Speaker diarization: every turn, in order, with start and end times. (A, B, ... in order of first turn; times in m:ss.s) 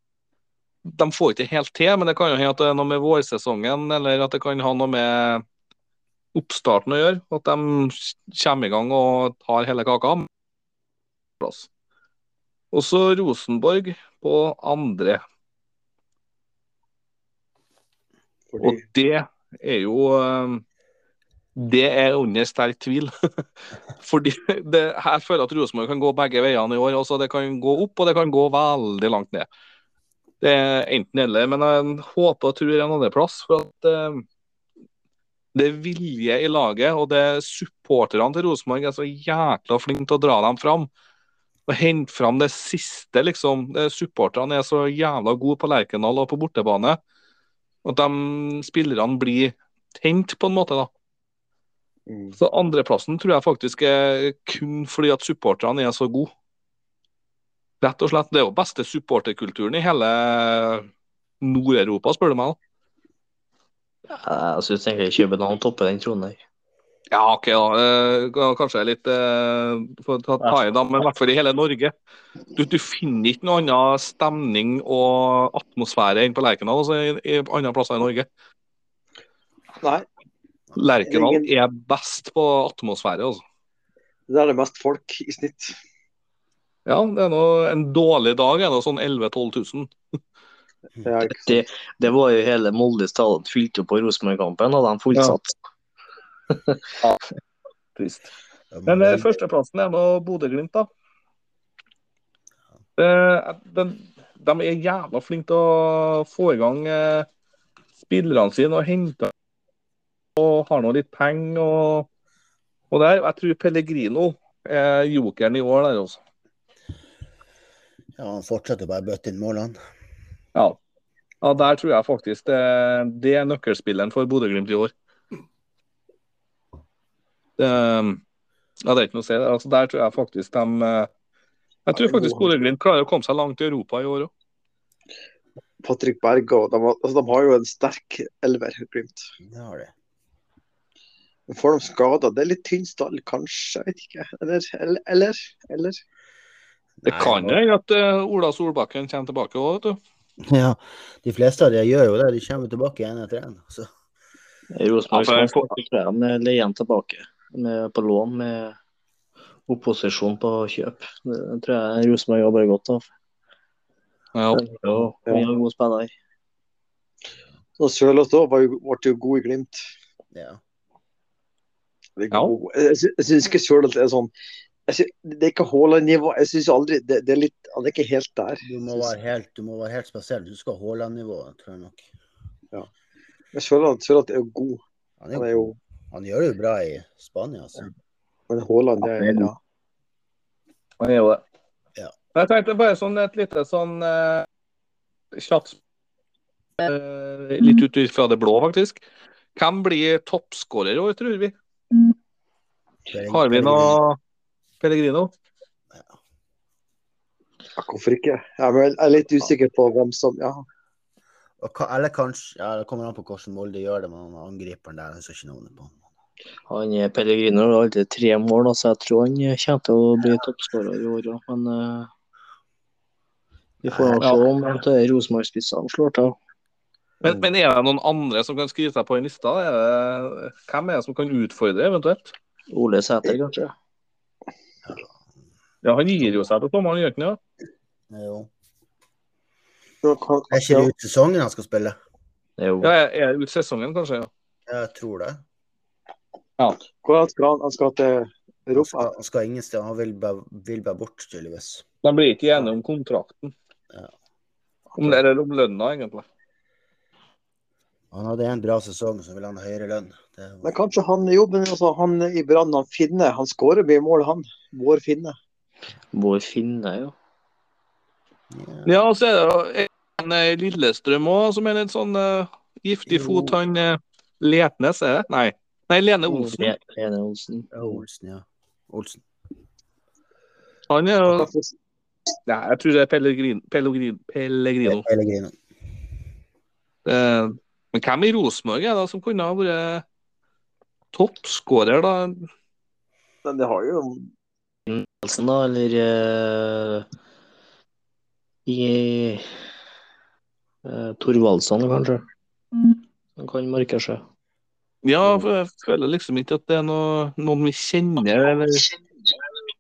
0:00.8-0:05.4 A
0:06.3-0:10.3 A
0:11.4-0:11.7 A
0:12.7-0:15.2 A
0:18.5-0:18.8 B
0:18.6-0:20.6 A
0:21.6-0:23.1 A
0:24.0-0:29.5 A
0:30.4-0:34.2 A
0:35.5-0:40.9 A
0:41.7-0:47.0 A
0:47.8-0:50.9 A
0:52.1-0:52.4 B
0:52.4-0:56.3 A
0:57.8-1:00.9 A
1:01.4-1:02.6 A
1:04.1-1:06.4 C
1:07.1-1:11.9 A
1:12.6-1:18.3 A
1:20.8-1:23.4 A
1:21.0-1:21.5 B
1:24.3-1:25.8 B
1:26.9-1:29.9 A
1:31.0-1:31.6 B
1:31.4-1:35.5 C
1:36.5-1:36.8 C
1:38.0-1:38.3 A
1:38.7-1:39.4 D
1:38.9-1:40.9 A
1:43.0-1:47.3 A
1:48.0-1:49.3 A
1:50.4-1:52.1 A
1:52.9-1:56.2 A
1:58.2-1:59.8 D
2:01.4-2:04.9 A
2:07.6-2:08.2 A
2:08.8-2:11.1 A
2:11.9-2:14.3 A
2:12.0-2:12.5 B
2:15.8-2:19.2 B
2:19.4-2:19.9 D
2:21.5-2:26.0 B
2:27.0-2:27.6 D
2:27.0-2:30.0 A
2:30.4-2:33.9 D
2:34.8-2:38.8 C
2:35.1-2:35.7 A
2:39.7-2:43.1 C
2:44.3-2:44.6 A
2:44.5-2:46.1 C
2:47.8-2:49.8 B
2:50.3-2:50.6 D
2:52.2-2:54.3 B
2:54.9-2:59.1 B
2:58.6-3:02.0 D
3:03.5-3:04.8 B
3:05.2-3:07.9 D
3:05.3-3:05.8 B
3:08.5-3:09.6 B
3:09.2-3:09.5 C
3:11.0-3:11.4 A
3:12.4-3:14.5 A
3:15.3-3:15.8 A
3:16.8-3:19.0 A
3:19.6-3:21.5 A
3:23.1-3:24.0 D
3:23.3-3:24.2 A
3:24.8-3:25.3 A
3:27.8-3:30.6 B
3:31.6-3:36.0 D
3:36.7-3:42.1 C
3:43.8-3:46.4 C
3:43.9-3:44.2 D
3:47.2-3:52.3 A
3:47.2-3:47.5 D
3:52.7-3:53.7 C
3:55.8-3:57.4 A
3:58.1-3:58.5 D
4:00.0-4:00.9 B
4:00.5-4:02.0 D
4:02.6-4:02.9 C
4:02.8-4:04.3 A
4:04.7-4:05.4 D
4:07.0-4:09.1 B
4:08.8-4:11.8 D
4:12.0-4:13.5 A
4:15.0-4:16.2 A
4:18.1-4:20.7 D
4:20.6-4:25.4 B
4:26.1-4:27.1 C
4:28.5-4:29.0 D
4:28.9-4:36.7 A
4:33.1-4:33.5 D
4:36.3-4:38.0 C
4:37.7-4:39.2 D
4:40.9-4:41.5 A
4:41.3-4:41.7 B
4:42.5-4:45.0 A
4:44.8-4:45.6 D
4:47.0-4:50.0 A
4:51.1-4:52.5 A
4:53.4-4:54.3 B
4:54.9-4:57.1 C
4:58.7-4:59.4 C
5:00.8-5:02.2 C
5:03.4-5:04.2 C
5:05.0-5:08.9 A